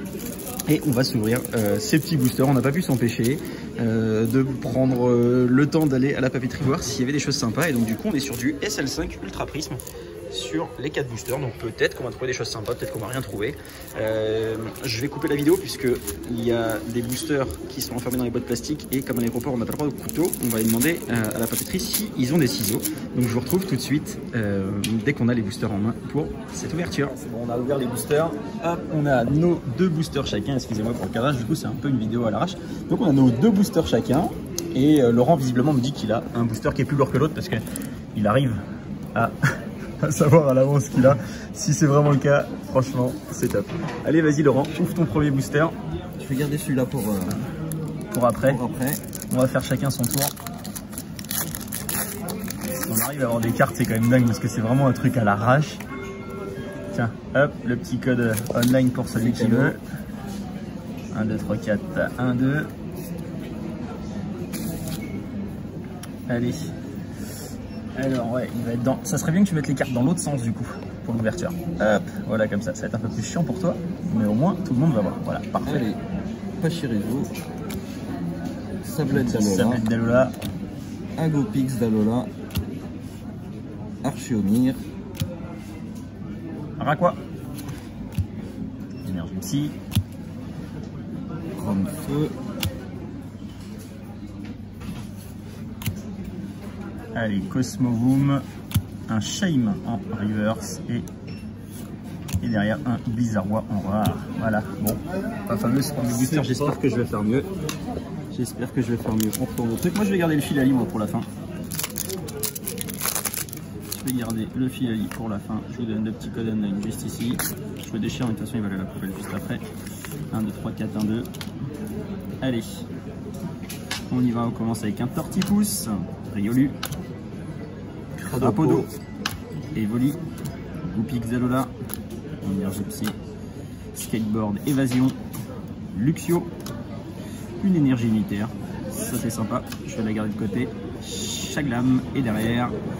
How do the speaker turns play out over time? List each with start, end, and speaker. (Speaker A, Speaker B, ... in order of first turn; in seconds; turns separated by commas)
Speaker A: 0.7-37.6, Speaker A: 38.1-38.6, Speaker A: 40.0-45.7, Speaker B: 46.2-47.4, Speaker A: 48.1-48.6, Speaker B: 48.4-49.0, Speaker A: 49.3-50.3, Speaker A: 52.8-55.8, Speaker A: 56.9-59.8, Speaker B: 59.1-59.8, Speaker A: 61.1-62.7, Speaker A: 66.3-66.7, Speaker A: 68.0-75.9, Speaker B: 75.6-76.0, Speaker B: 76.6-77.3, Speaker B: 78.8-79.8, Speaker A: 79.1-80.3, Speaker B: 81.2-82.3, Speaker B: 84.0-84.8, Speaker A: 86.8-87.2, Speaker A: 89.0-89.7, Speaker B: 91.5-92.3, Speaker A: 97.2-98.4, Speaker A: 99.1-101.1, Speaker A: 102.4-107.5, Speaker B: 106.1-106.7, Speaker A: 108.3-111.3, Speaker A: 113.9-119.6, Speaker A: 120.3-121.3, Speaker A: 122.4-122.8, Speaker A: 124.1-126.8, Speaker B: 128.2-128.9, Speaker A: 128.3-128.9, Speaker A: 129.7-130.2, Speaker A: 130.9-131.7, Speaker A: 132.4-133.1, Speaker A: 133.9-135.2, Speaker A: 135.9-136.5, Speaker A: 137.6-142.8